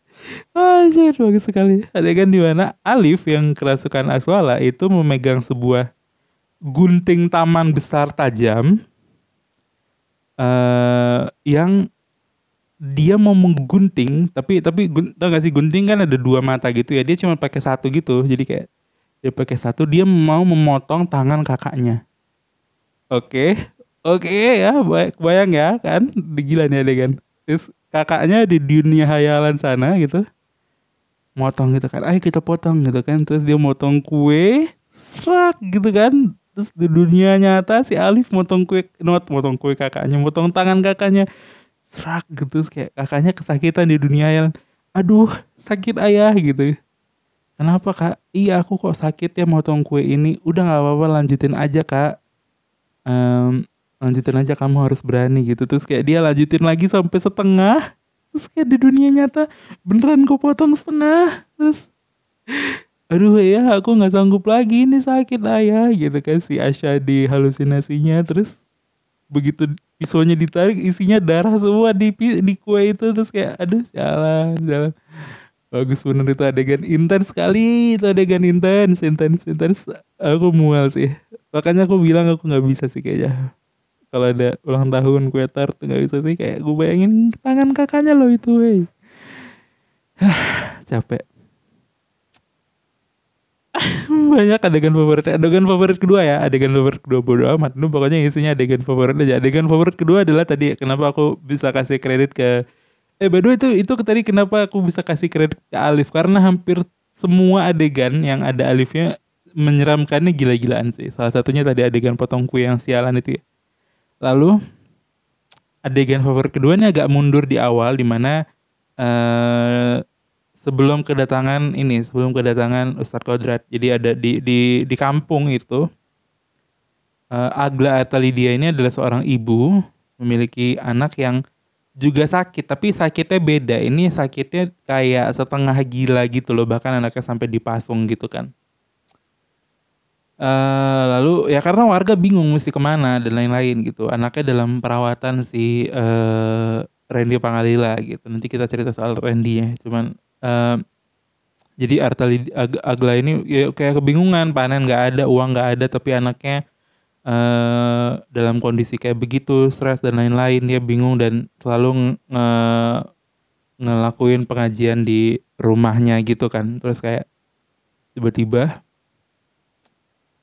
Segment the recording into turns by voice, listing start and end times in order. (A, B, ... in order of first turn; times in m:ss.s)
0:00.6-0:05.8 A
0:06.7-0:08.7 A
0:10.4-0:11.7 A
0:13.0-0:18.6 A
0:19.2-0:22.0 A
0:23.1-0:23.5 A
0:24.1-0:30.2 A
0:31.4-0:41.2 A
0:41.9-0:46.7 A
0:47.6-0:52.1 A
0:53.1-0:57.8 A
0:58.3-1:01.9 A
1:03.1-1:08.5 A
1:09.3-1:14.9 A
1:15.7-1:23.3 A
1:24.1-1:28.8 A
1:30.2-1:31.2 A
1:33.8-1:42.5 A
1:43.2-1:49.1 A
1:49.6-1:53.4 A
1:54.2-1:54.5 A
1:55.9-1:58.3 A
1:59.0-2:00.0 A
2:00.6-2:05.8 A
2:07.4-2:09.6 A
2:10.2-2:11.4 A
2:12.0-2:18.5 A
2:20.4-2:30.8 A
2:31.8-2:36.6 A
2:37.3-2:43.0 A
2:43.8-2:47.2 A
2:48.2-2:48.7 A